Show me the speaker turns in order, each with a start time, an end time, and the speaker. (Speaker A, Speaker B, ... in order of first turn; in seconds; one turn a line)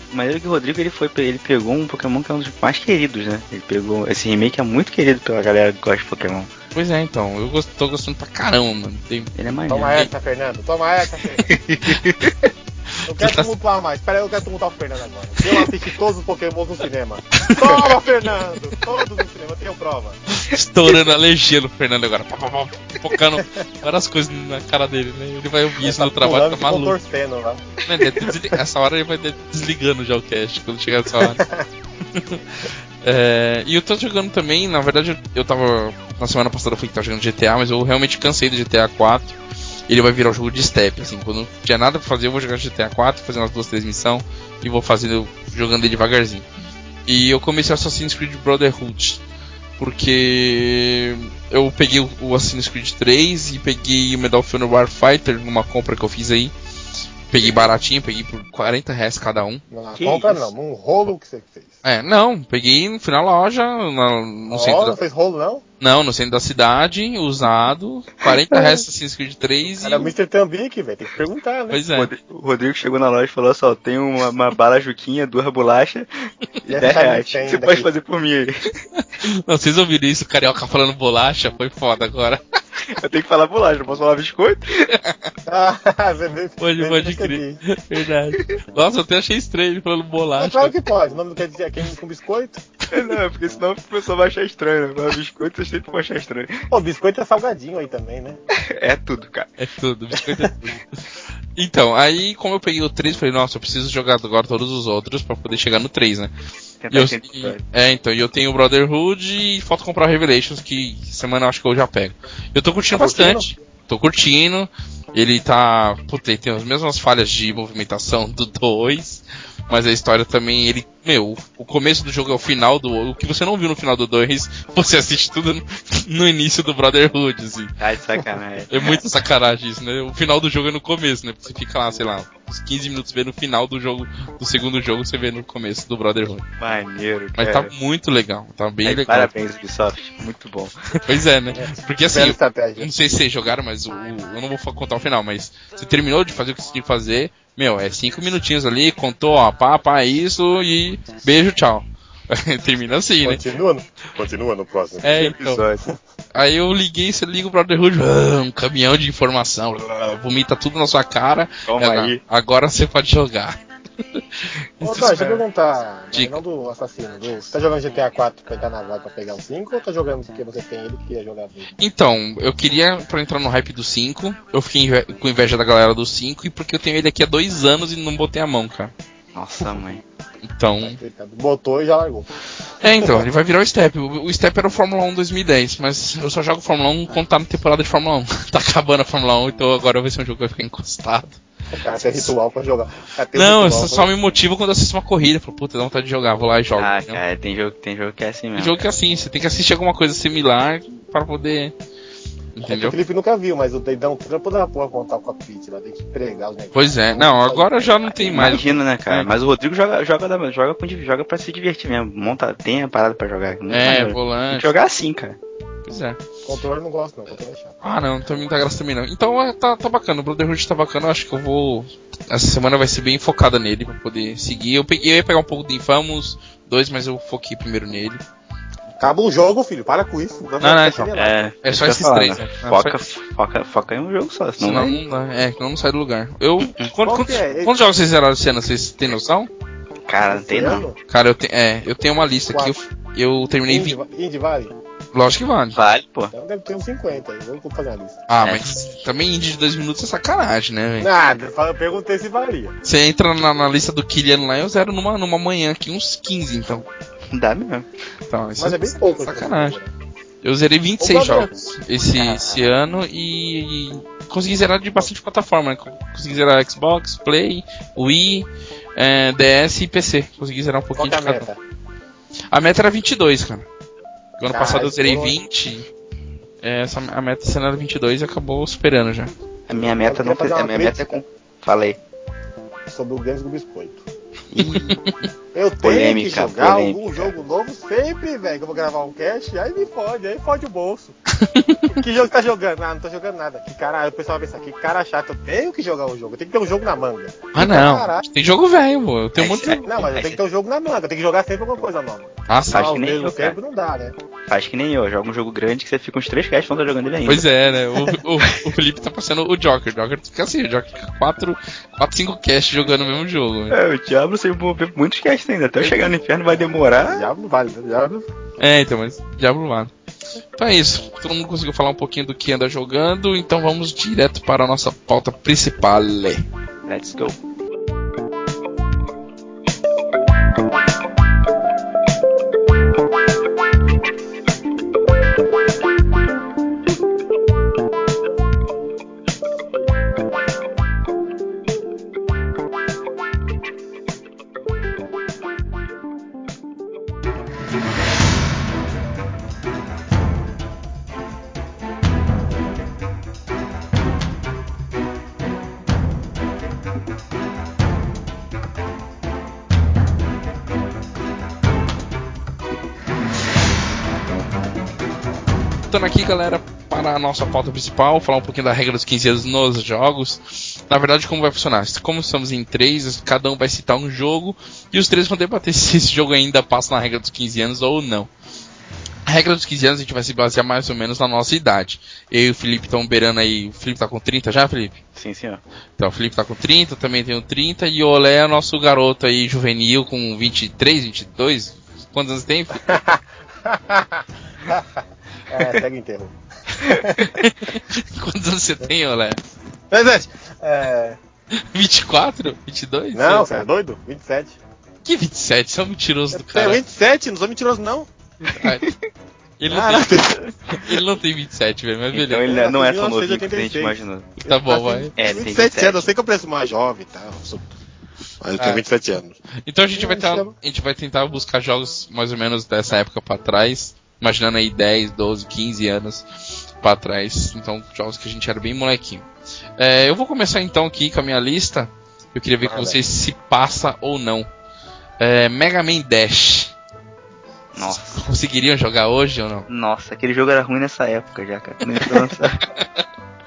Speaker A: 0.1-6.5
Speaker B: 6.7-9.3
Speaker A: 9.4-10.1
Speaker C: 9.7-11.5
Speaker A: 11.5-12.3
Speaker C: 13.0-20.2
Speaker B: 13.2-13.5
Speaker B: 17.4-17.8
Speaker B: 20.3-27.0
Speaker C: 23.4-23.6
Speaker C: 25.8-27.8
Speaker B: 27.9-31.4
Speaker C: 31.2-31.6
Speaker B: 32.1-39.4
Speaker B: 39.9-46.5
Speaker B: 47.0-49.2
Speaker B: 49.8-56.5
Speaker B: 57.3-59.6
Speaker C: 57.4-57.7
Speaker C: 59.7-61.7
Speaker A: 60.0-60.5
Speaker B: 61.8-65.0
Speaker C: 64.5-65.6
Speaker B: 65.8-70.1
Speaker A: 68.5-68.8
Speaker C: 69.8-71.8
Speaker B: 71.7-72.1
Speaker A: 72.0-76.1
Speaker A: 76.6-78.8
Speaker C: 76.7-77.9
Speaker B: 79.0-82.4
Speaker A: 82.8-84.9
Speaker B: 84.9-85.2
Speaker C: 85.5-87.6
Speaker B: 86.6-90.8
Speaker C: 90.4-92.6
Speaker A: 92.9-96.6
Speaker C: 96.7-98.4
Speaker A: 98.5-99.5
Speaker B: 99.6-100.8
Speaker B: 101.5-106.3
Speaker A: 106.8-107.6
Speaker B: 106.9-127.7
Speaker C: 112.9-113.5
Speaker A: 127.8-129.0
Speaker B: 128.7-136.4
Speaker A: 136.6-137.7
Speaker B: 137.4-139.3
Speaker A: 138.8-141.0
Speaker B: 141.0-153.4
Speaker C: 141.5-142.9
Speaker C: 153.2-155.4
Speaker B: 155.0-155.6
Speaker A: 155.4-155.8
Speaker B: 156.3-163.6
Speaker A: 161.7-162.2
Speaker B: 164.1-165.4
Speaker C: 164.8-171.7
Speaker B: 166.1-166.4
Speaker B: 171.8-178.9
Speaker A: 179.3-180.0
Speaker B: 180.4-181.0
Speaker C: 180.8-182.3
Speaker B: 182.8-191.4
Speaker C: 182.9-183.2
Speaker C: 191.7-194.1
Speaker B: 193.3-197.2
Speaker A: 196.7-198.9
Speaker B: 198.6-201.7
Speaker B: 202.6-202.9
Speaker C: 202.6-207.9
Speaker B: 206.7-209.3
Speaker A: 208.0-215.4
Speaker B: 213.7-214.7
Speaker B: 215.9-216.2
Speaker C: 216.4-217.8
Speaker B: 217.8-228.2
Speaker C: 229.0-231.5
Speaker B: 230.6-231.1
Speaker A: 231.2-235.0
Speaker B: 231.6-233.0
Speaker B: 234.6-239.5
Speaker A: 236.6-236.9
Speaker C: 237.0-237.7
Speaker A: 240.1-240.9
Speaker C: 240.3-241.0
Speaker B: 241.1-243.9
Speaker C: 243.7-244.8
Speaker B: 245.1-245.8
Speaker A: 245.7-246.3
Speaker C: 246.3-248.2
Speaker B: 248.3-251.1
Speaker A: 248.4-248.8
Speaker C: 251.0-252.7
Speaker B: 252.8-256.9
Speaker A: 257.3-257.9
Speaker B: 258.3-259.8
Speaker C: 258.6-259.9
Speaker B: 260.4-271.5
Speaker C: 261.0-261.5
Speaker A: 262.2-262.6
Speaker C: 271.0-271.6
Speaker B: 272.5-273.6
Speaker B: 274.4-275.9
Speaker C: 274.5-275.4
Speaker B: 276.6-279.3
Speaker A: 279.7-282.0
Speaker C: 279.7-281.0
Speaker C: 282.9-284.1
Speaker A: 284.5-285.0
Speaker B: 284.6-285.3
Speaker C: 285.5-291.1
Speaker A: 285.8-287.3
Speaker B: 291.4-291.9
Speaker C: 291.9-298.2
Speaker B: 297.6-299.9
Speaker A: 299.4-300.4
Speaker C: 299.8-304.1
Speaker B: 302.5-302.9
Speaker A: 302.7-303.6
Speaker A: 304.5-307.4
Speaker B: 307.3-313.8
Speaker A: 308.1-308.6
Speaker A: 313.7-317.3
Speaker C: 316.9-318.3
Speaker B: 318.6-319.9
Speaker B: 320.6-326.4
Speaker A: 326.9-327.4
Speaker B: 365.9-378.3
Speaker B: 379.3-385.0
Speaker A: 385.1-385.6
Speaker B: 386.0-393.0
Speaker C: 392.9-397.4
Speaker B: 396.8-399.4
Speaker C: 399.9-401.2
Speaker B: 401.5-403.6
Speaker C: 403.1-404.6
Speaker B: 405.1-406.8
Speaker C: 406.3-408.1
Speaker B: 408.5-408.9
Speaker B: 409.6-412.5
Speaker C: 409.7-410.5
Speaker A: 412.1-414.3
Speaker C: 412.4-417.8
Speaker B: 414.4-415.1
Speaker A: 415.2-416.1
Speaker C: 418.4-419.4
Speaker B: 418.6-418.8
Speaker B: 419.6-429.3
Speaker C: 419.9-420.5
Speaker B: 429.8-434.5
Speaker A: 432.7-432.9
Speaker B: 435.2-436.7
Speaker A: 437.7-438.2
Speaker B: 437.8-439.7
Speaker A: 439.7-442.6